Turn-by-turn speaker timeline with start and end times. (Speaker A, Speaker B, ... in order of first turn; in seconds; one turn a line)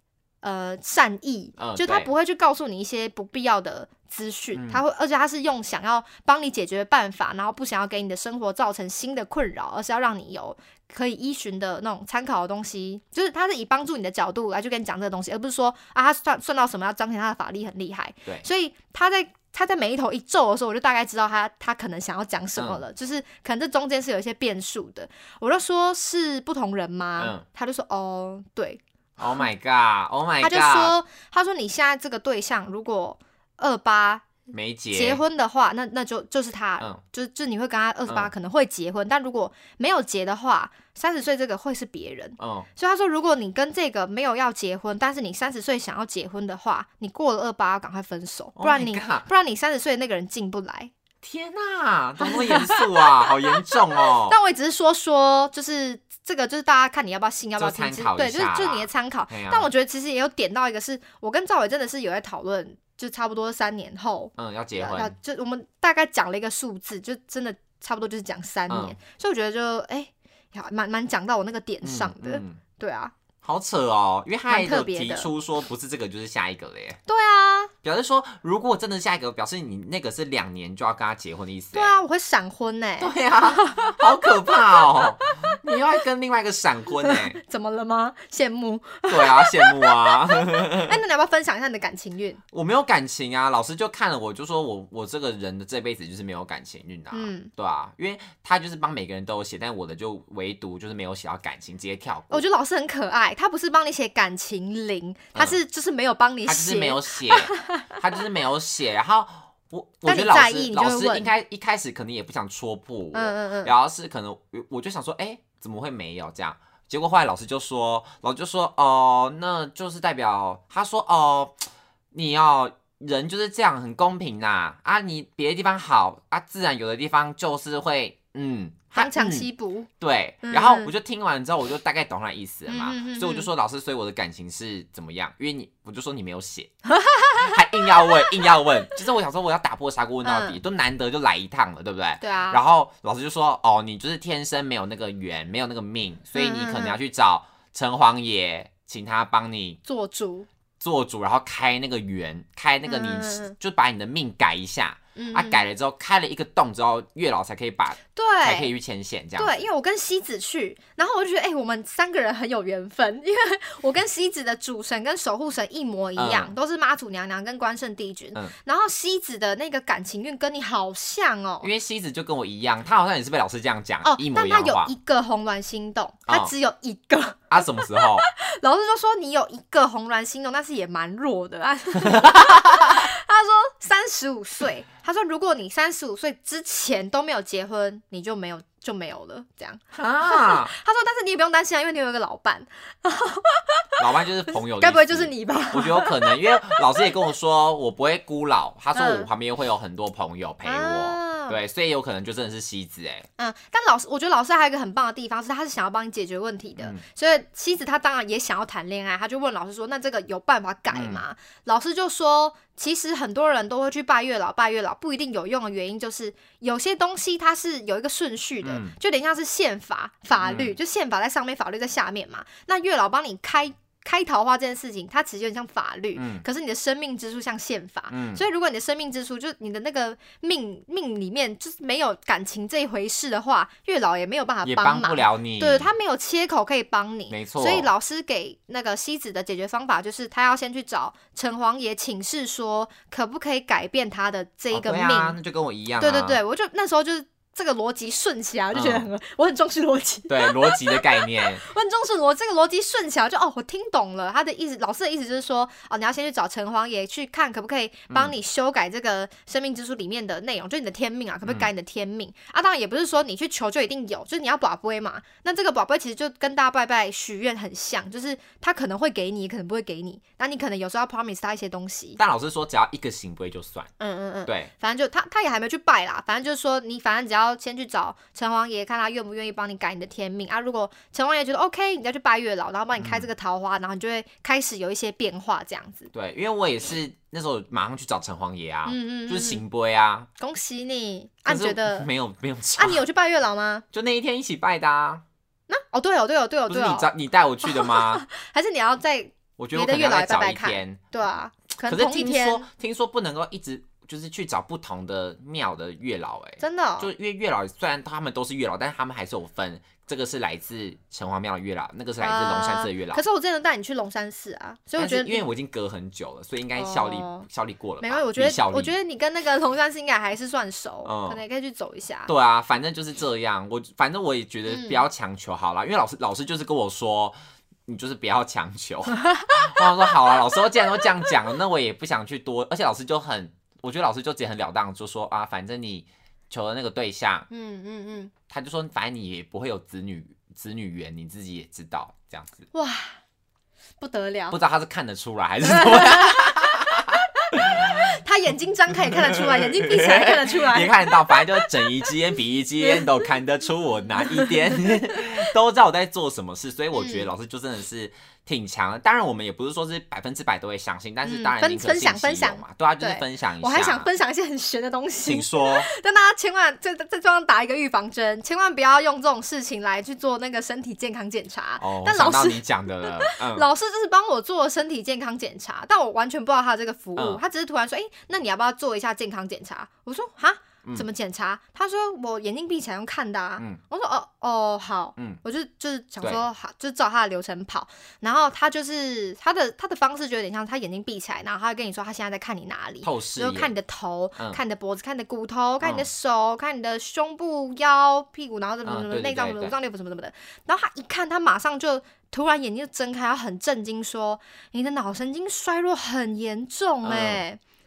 Speaker A: 0.4-28.8
Speaker B: 1.6-2.1
Speaker B: 4.5-4.8
Speaker B: 22.6-22.8
Speaker B: 27.2-27.4
Speaker B: 29.2-31.0
Speaker A: 30.4-34.4
Speaker B: 34.5-35.2
Speaker A: 34.9-50.9
Speaker B: 42.4-42.7
Speaker B: 48.6-49.3
Speaker B: 51.2-54.4
Speaker A: 52.2-73.1
Speaker B: 57.6-59.7
Speaker B: 64.4-65.2
Speaker B: 68.7-69.0
Speaker B: 71.8-72.6
Speaker B: 73.4-77.0
Speaker A: 74.5-75.3
Speaker A: 77.1-77.7
Speaker B: 77.8-82.0
Speaker A: 81.7-84.0
Speaker B: 83.0-87.4
Speaker A: 84.5-85.6
Speaker A: 87.0-92.4
Speaker B: 89.1-91.0
Speaker B: 92.5-102.5
Speaker A: 97.1-97.5
Speaker A: 102.3-108.0
Speaker B: 106.5-129.5
Speaker A: 110.0-111.3
Speaker A: 113.1-113.7
Speaker A: 129.0-129.9
Speaker B: 130.0-136.7
Speaker A: 130.4-130.9
Speaker A: 132.7-133.5
Speaker A: 136.9-138.5
Speaker B: 137.4-149.8
Speaker A: 140.2-140.6
Speaker A: 142.2-142.6
Speaker A: 146.3-147.0
Speaker A: 149.8-150.5
Speaker B: 150.8-159.7
Speaker A: 152.9-153.6
Speaker A: 155.2-155.6
Speaker A: 158.2-158.7
Speaker A: 159.4-171.7
Speaker B: 166.2-166.5
Speaker B: 171.6-174.9
Speaker A: 174.0-197.1
Speaker B: 177.5-178.3
Speaker B: 182.0-183.1
Speaker B: 189.9-190.7
Speaker B: 194.0-203.3
Speaker A: 198.9-199.3
Speaker A: 200.6-201.6
Speaker A: 203.4-245.4
Speaker B: 210.9-211.2
Speaker B: 218.6-218.9
Speaker B: 220.4-220.7
Speaker B: 226.2-226.4
Speaker B: 228.1-228.4
Speaker B: 234.6-235.9
Speaker B: 237.3-237.9
Speaker B: 244.7-246.4
Speaker A: 246.0-272.2
Speaker B: 248.7-249.1
Speaker B: 250.3-251.6
Speaker B: 272.2-273.9
Speaker A: 274.0-286.1
Speaker B: 274.5-274.7
Speaker B: 283.0-283.3
Speaker B: 286.1-290.3
Speaker A: 288.9-289.6
Speaker A: 290.4-292.1
Speaker B: 291.5-293.0
Speaker A: 292.8-293.9
Speaker B: 293.9-295.2
Speaker A: 295.7-297.1
Speaker B: 296.7-298.2
Speaker A: 297.6-302.7
Speaker B: 299.6-301.0
Speaker B: 301.9-313.2
Speaker A: 306.6-307.1
Speaker A: 312.2-315.5
Speaker B: 315.0-318.9
Speaker A: 316.8-317.5
Speaker A: 318.0-322.3
Speaker B: 321.1-321.4
Speaker B: 322.3-327.4
Speaker A: 324.7-325.0
Speaker B: 327.9-337.5
Speaker A: 329.1-329.8
Speaker A: 337.5-338.3
Speaker B: 338.5-342.7
Speaker A: 342.7-343.2
Speaker A: 344.0-344.6
Speaker B: 344.5-348.1
Speaker A: 345.6-352.1
Speaker B: 348.9-364.1
Speaker A: 352.8-353.1
Speaker A: 354.2-355.2
Speaker A: 356.9-357.3
Speaker A: 361.2-407.6
Speaker B: 365.2-365.9
Speaker B: 371.8-373.7
Speaker B: 377.2-377.4
Speaker B: 393.0-393.7
Speaker B: 398.9-399.8
Speaker B: 407.0-407.4